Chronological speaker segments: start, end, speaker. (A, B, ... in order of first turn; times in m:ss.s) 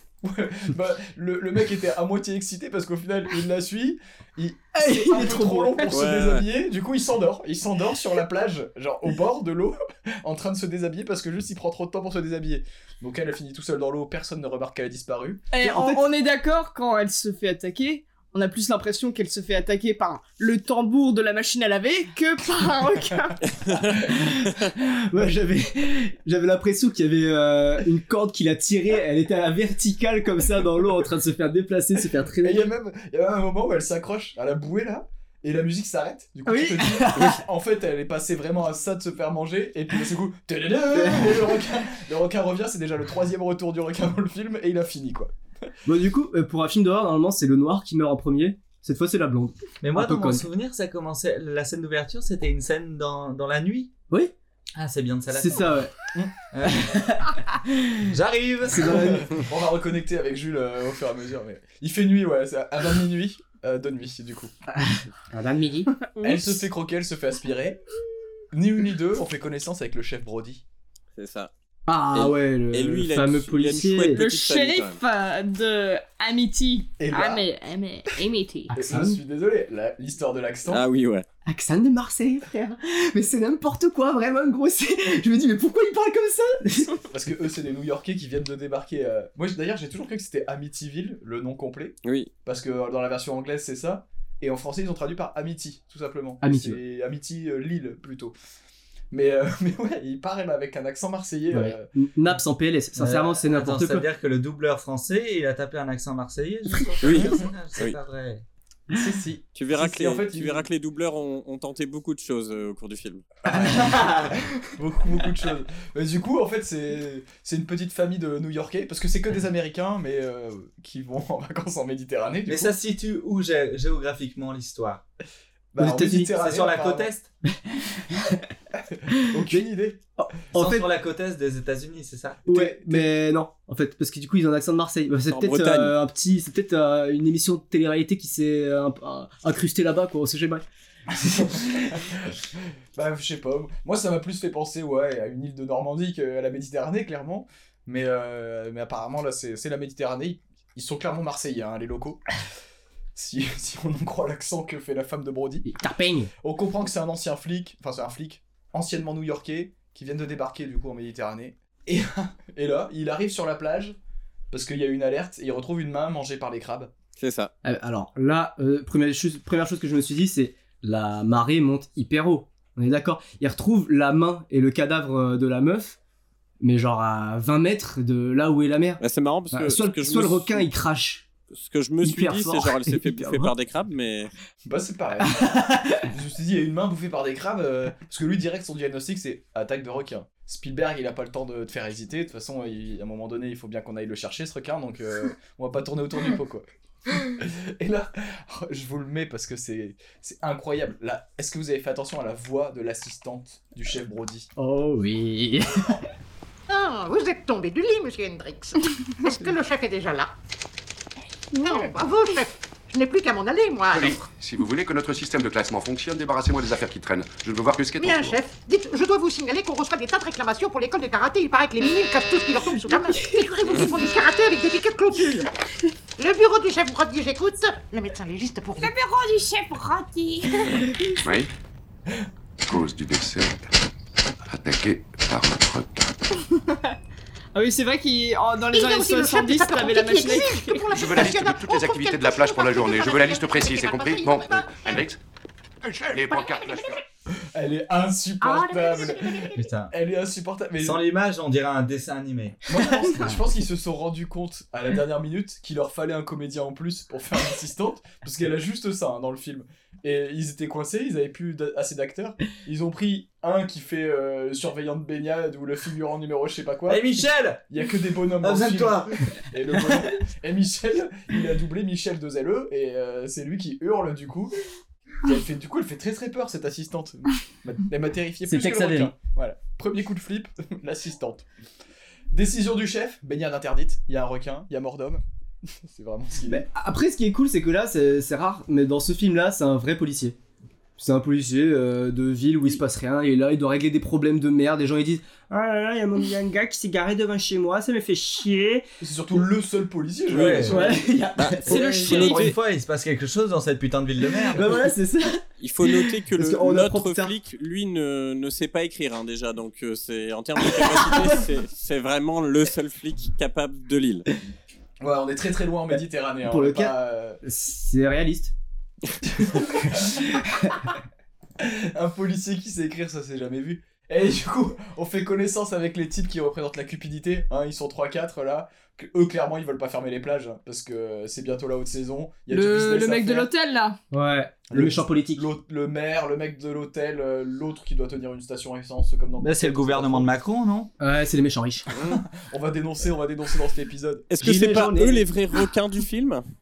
0:00.2-0:15.5 A
0:04.8-0:05.9 B
0:05.9-0:06.5 C
0:15.5-0:23.4 D
0:15.6-0:16.0 B
0:24.1-0:32.7 B
0:32.4-0:45.3 A
0:36.5-0:37.4 B
0:40.9-0:41.6 B
0:45.9-0:50.5 B
0:49.8-0:53.9 E
0:54.8-0:55.8 E
0:55.3-0:56.0 B
0:56.5-0:57.0 E
0:56.6-0:58.0 B
0:58.1-0:59.2 E
0:58.7-0:59.4 B
0:58.9-1:04.5 A
1:04.7-1:06.0 B
1:06.1-1:06.6 D
1:06.2-1:07.8 A
1:08.5-1:10.6 A
1:11.2-1:11.5 C
1:11.9-1:14.2 B
1:12.1-1:15.0 C
1:14.2-1:18.8 D
1:17.0-1:17.5 A
1:18.7-1:19.2 B
1:18.8-1:20.8 A
1:20.7-1:21.2 C
1:21.5-1:27.0 B
1:27.1-1:38.3 A
1:32.0-1:32.3 C
1:36.4-1:36.8 B
1:39.1-1:41.9 A
1:41.5-1:44.1 B
1:43.0-1:48.4 E
1:47.0-1:48.0 C
1:48.9-1:50.7 A
1:49.6-1:53.3 C
1:53.5-2:02.7 A
1:53.5-1:54.4 E
2:02.5-2:05.0 E
2:05.7-2:07.1 A
2:05.8-2:06.4 B
2:06.3-2:07.3 E
2:08.0-2:08.4 B
2:08.9-2:10.0 A
2:09.1-2:10.9 B
2:10.5-2:12.4 E
2:12.5-2:13.1 A
2:12.5-2:20.6 B
2:15.3-2:15.9 C
2:21.4-2:22.4 A
2:23.0-2:32.2 A
2:33.2-2:35.7 A
2:35.6-2:36.3 B
2:36.4-2:44.0 A
2:44.5-2:46.9 A
2:47.2-2:47.5 C
2:47.6-2:56.0 B
2:56.6-3:01.2 B
2:59.0-3:00.7 C
3:01.5-3:04.3 C
3:02.0-3:03.5 B
3:04.7-3:16.7 A
3:05.4-3:06.0 B
3:17.2-3:24.5 A
3:24.6-3:26.0 B
3:26.7-3:30.3 F
3:31.6-3:34.3 F
3:33.9-3:38.4 G
3:38.0-3:45.5 F
3:46.2-3:48.9 F
3:48.8-3:50.9 D
3:51.2-3:51.5 G
3:52.6-3:53.7 G
3:54.5-3:56.2 G
3:56.5-3:56.9 D
3:57.6-4:01.0 D
3:58.7-4:05.1 F
4:00.9-4:05.2 G
4:05.9-4:07.0 G
4:06.2-4:07.0 F
4:07.5-4:11.0 A
4:08.4-4:09.7 F
4:09.5-4:09.9 E
4:10.8-4:13.4 E
4:12.7-4:34.6 A
4:26.9-4:27.6 E
4:28.4-4:29.2 E
4:35.2-4:41.5 A
4:38.4-4:39.1 B
4:42.3-4:45.2 A
4:45.8-4:46.6 A
4:46.5-4:50.4 B
4:51.0-4:58.9 B
4:59.0-5:01.1 A
5:00.3-5:00.9 E
5:00.4-5:02.2 B
5:01.4-5:02.6 C
5:01.7-5:02.5 D
5:01.7-5:04.7 E
5:04.5-5:07.3 B
5:05.6-5:14.2 C
5:10.8-5:11.2 B
5:15.0-5:17.4 A
5:16.5-5:18.5 B
5:19.2-5:20.2 A
5:19.9-5:20.9 B
5:21.6-5:33.5 A
5:32.5-5:34.0 D
5:34.1-5:35.5 B
5:34.7-5:40.3 A
5:39.4-5:40.9 E
5:41.0-5:41.9 B
5:41.9-5:42.2 C
5:41.9-5:44.3 A
5:44.3-5:46.4 C
5:44.4-5:45.3 B